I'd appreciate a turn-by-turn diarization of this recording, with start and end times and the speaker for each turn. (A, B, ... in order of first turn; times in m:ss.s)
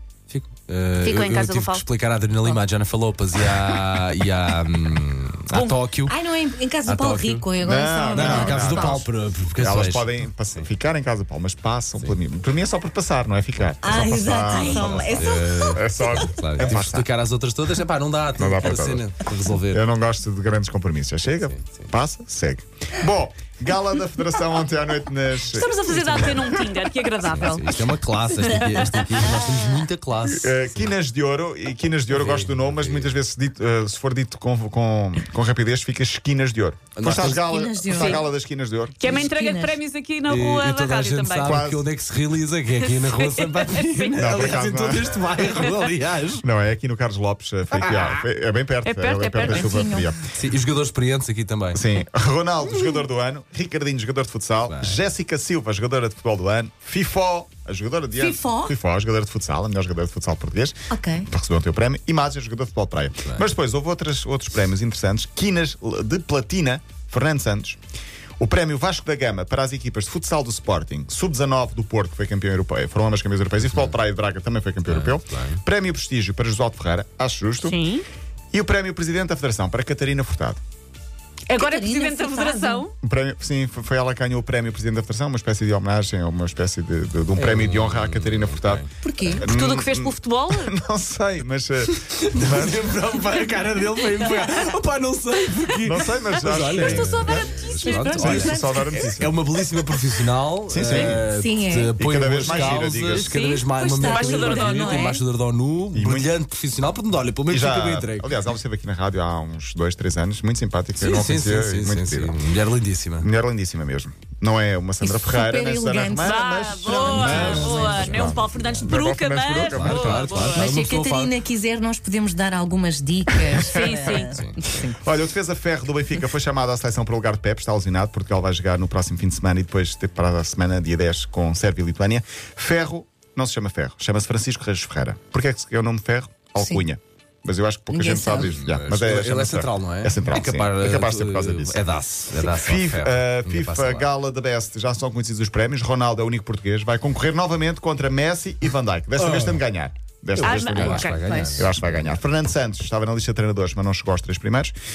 0:00.3-0:06.2 A
0:01.0-0:01.9 B
0:05.5-0:05.8 B
0:06.1-0:09.0 C
0:06.8-0:07.5 A
0:07.6-0:17.1 D
0:08.1-0:10.7 A
0:13.8-0:16.3 C
0:14.6-0:19.8 A
0:18.4-0:19.1 D
0:19.7-0:26.7 D
0:21.4-0:21.9 A
0:25.4-0:27.7 B
0:25.9-0:26.4 A
0:27.2-0:30.9 A
0:28.6-0:28.9 B
0:29.2-0:29.6 C
0:30.2-0:39.0 D
0:32.1-0:33.2 A
0:37.0-0:37.4 A
0:37.1-0:38.2 C
0:37.9-0:38.2 B
0:39.0-0:41.6 B
0:39.0-0:39.8 C
0:40.3-0:46.4 A
0:41.4-0:41.9 D
0:42.8-0:44.6 B
0:44.2-0:45.2 D
0:45.6-0:45.9 B
0:46.4-0:50.3 D
0:47.7-0:48.2 A
0:48.8-0:49.8 B
0:49.4-0:50.1 C
0:50.3-0:51.8 A
0:51.7-1:07.8 D
0:54.7-0:55.0 A
0:58.2-0:58.7 C
1:00.9-1:01.3 C
1:08.4-1:17.8 D
1:14.8-1:15.6 A
1:17.6-1:18.0 B
1:18.5-1:20.6 D
1:21.5-1:22.9 B
1:21.6-1:22.9 C
1:23.0-1:28.9 D
1:27.4-1:28.9 A
1:29.0-1:29.5 C
1:29.4-1:33.0 D
1:29.4-1:30.8 B
1:32.0-1:48.3 A
1:34.2-1:34.5 B
1:35.8-1:39.4 D
1:36.4-1:38.4 B
1:36.7-1:39.2 C
1:40.7-1:41.2 D
1:40.9-1:41.1 B
1:40.9-1:41.9 C
1:42.0-1:43.3 D
1:43.0-1:45.2 B
1:43.7-1:45.2 C
1:45.9-1:46.3 D
1:47.5-1:52.4 D
1:51.0-1:53.3 A
1:53.2-2:00.5 D
1:55.0-1:58.4 C
1:56.2-2:00.8 B
1:57.1-1:58.3 A
1:59.7-2:01.4 A
2:00.5-2:04.4 C
2:03.6-2:04.9 B
2:03.6-2:04.0 D
2:04.2-2:04.6 A
2:04.8-2:21.8 D
2:16.6-2:16.8 C
2:17.9-2:18.6 C
2:18.4-2:24.1 A
2:22.4-2:34.7 D
2:29.2-2:29.6 A
2:30.4-2:32.2 A
2:30.4-2:31.6 B